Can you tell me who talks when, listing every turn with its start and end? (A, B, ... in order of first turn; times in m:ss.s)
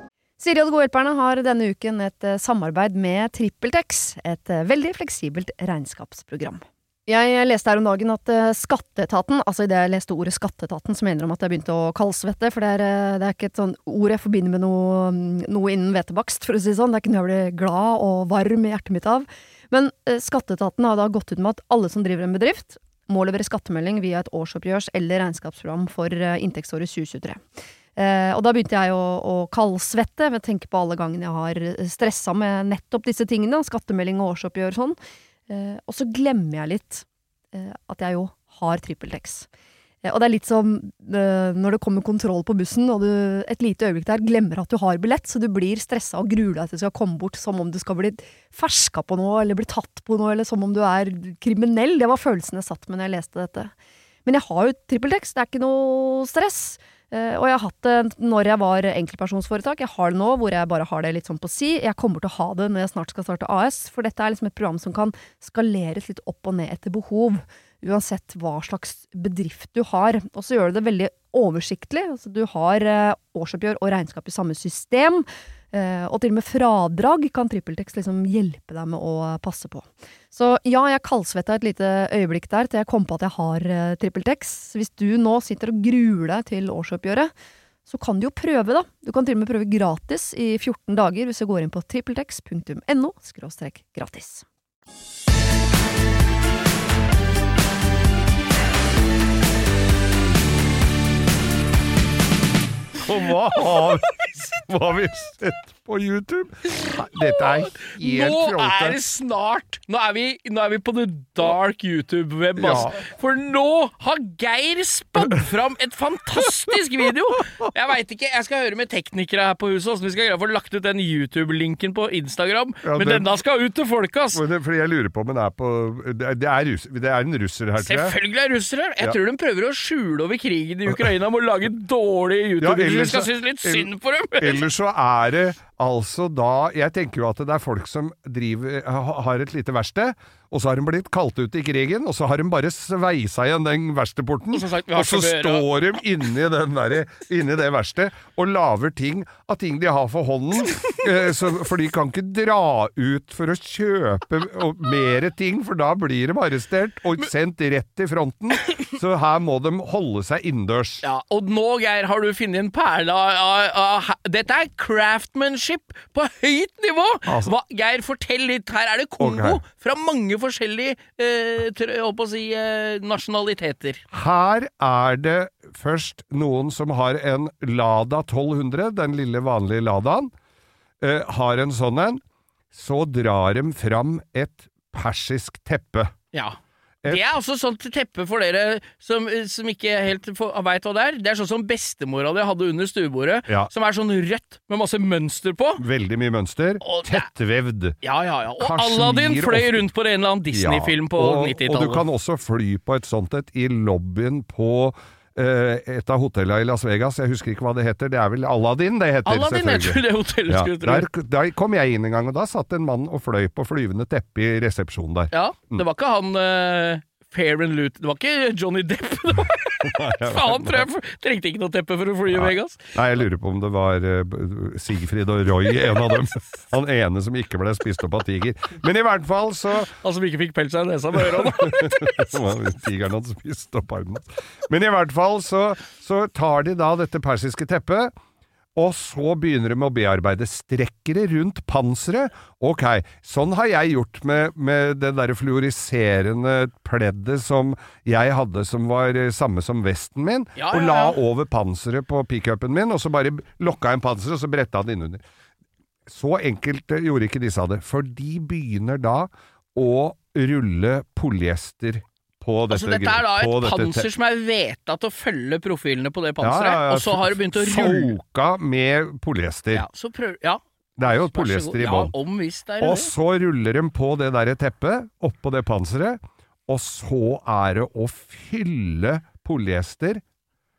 0:00.4-0:27.4 A
0:28.0-0:35.0 A
0:35.5-0:39.5 A
0:40.0-0:53.7 A
0:54.3-1:27.3 A
1:27.9-1:34.4 A
1:43.0-1:49.0 B
1:46.9-2:04.4 C
1:52.6-1:53.0 B
2:02.8-2:03.3 B
2:04.3-2:08.2 B
2:07.8-2:14.6 C
2:12.6-2:41.0 B
2:24.5-2:26.0 C
2:41.0-2:54.0 C
2:47.3-2:47.5 B
2:49.2-2:49.6 B
2:54.1-3:00.3 B
3:01.0-3:02.2 B
3:02.7-3:06.1 B
3:06.3-3:15.8 C
3:15.8-3:18.0 B
3:16.8-3:17.3 C
3:18.0-3:22.0 C
3:18.6-3:19.9 B
3:20.5-3:35.8 B
3:29.2-3:31.1 C
3:35.3-3:42.9 C
3:39.8-3:40.9 B
3:42.3-3:49.9 B
3:49.9-3:52.5 C
3:51.1-3:58.1 B
3:58.7-4:15.2 B
4:10.6-4:11.2 C
4:16.1-4:24.1 B
4:22.7-4:28.1 C
4:26.4-4:29.9 B
4:29.7-4:33.1 C
4:31.0-4:32.1 B
4:32.8-4:40.2 B